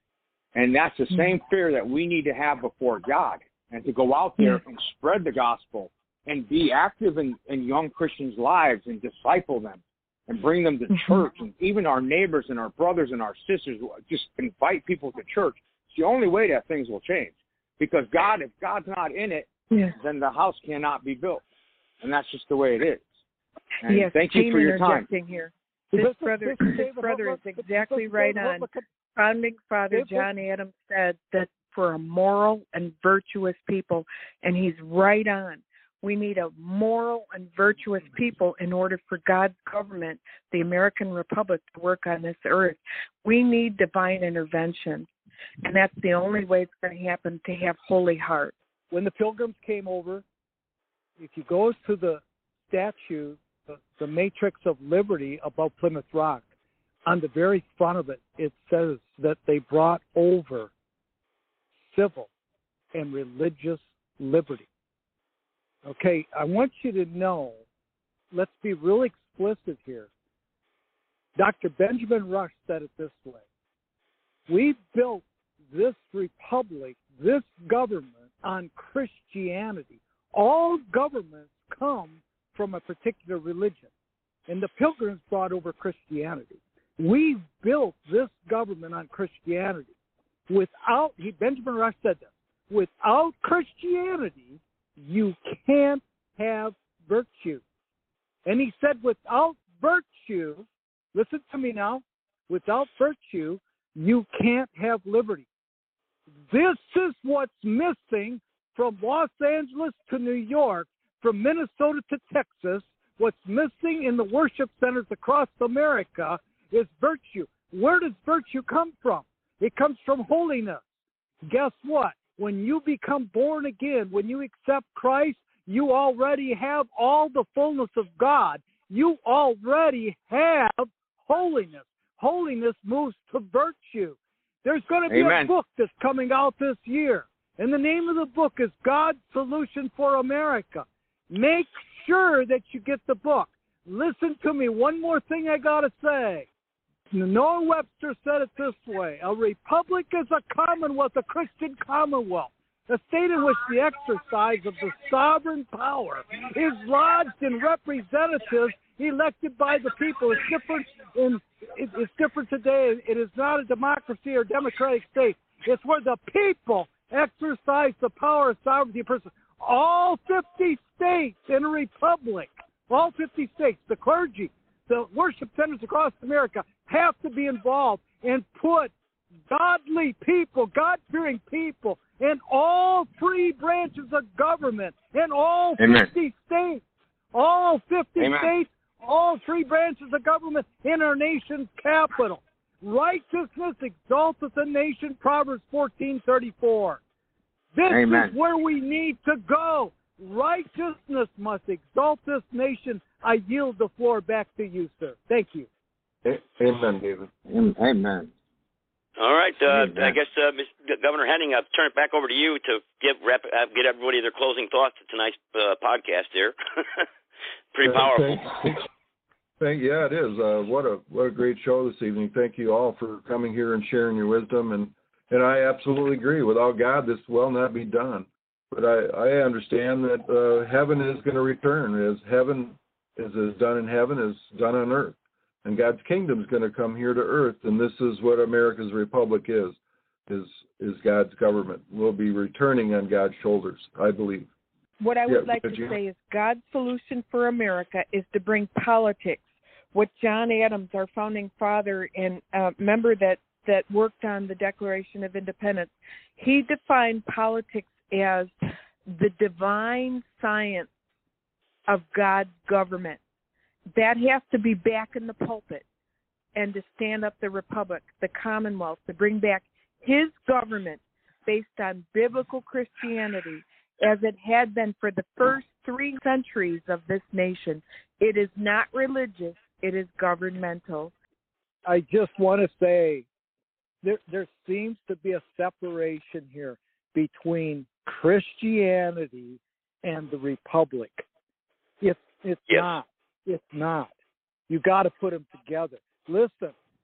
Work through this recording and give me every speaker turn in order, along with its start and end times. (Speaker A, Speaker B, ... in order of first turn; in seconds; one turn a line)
Speaker A: 0.5-21.4
Speaker B: 10.9-11.2
Speaker A: 22.0-23.1
Speaker A: 23.8-25.1
Speaker B: 23.9-45.1
Speaker C: 25.9-28.8
Speaker C: 29.9-30.3
Speaker B: 45.6-48.5
Speaker C: 48.9-50.2
Speaker C: 51.2-56.4
Speaker C: 57.0-60.7
Speaker C: 61.9-62.3
Speaker C: 62.9-64.7
Speaker C: 65.8-67.6
Speaker C: 68.3-70.1
Speaker C: 71.3-73.4
Speaker C: 74.5-83.9
Speaker C: 84.5-89.9
Speaker C: 90.5-97.6
Speaker C: 98.5-105.5
Speaker C: 106.5-120.8
Speaker C: 121.4-146.5
Speaker A: 135.1-135.5
Speaker C: 147.1-178.9
Speaker C: 179.5-197.0
Speaker A: 185.8-186.1
Speaker A: 188.2-188.5
Speaker C: 197.7-205.7
Speaker A: 197.9-198.3
Speaker D: 206.2-207.3
Speaker A: 207.5-208.3
Speaker E: 209.2-217.1
Speaker A: 209.6-210.2
Speaker E: 217.7-218.7
Speaker D: 217.8-218.9
Speaker D: 219.6-244.5
Speaker B: 245.0-258.5
Speaker D: 245.3-245.9
Speaker B: 259.1-260.9
Speaker B: 261.9-263.2
Speaker B: 263.9-265.8
Speaker B: 266.6-281.1
Speaker C: 281.9-283.3
Speaker C: 284.0-291.2
Speaker C: 292.0-294.1
Speaker C: 294.7-296.7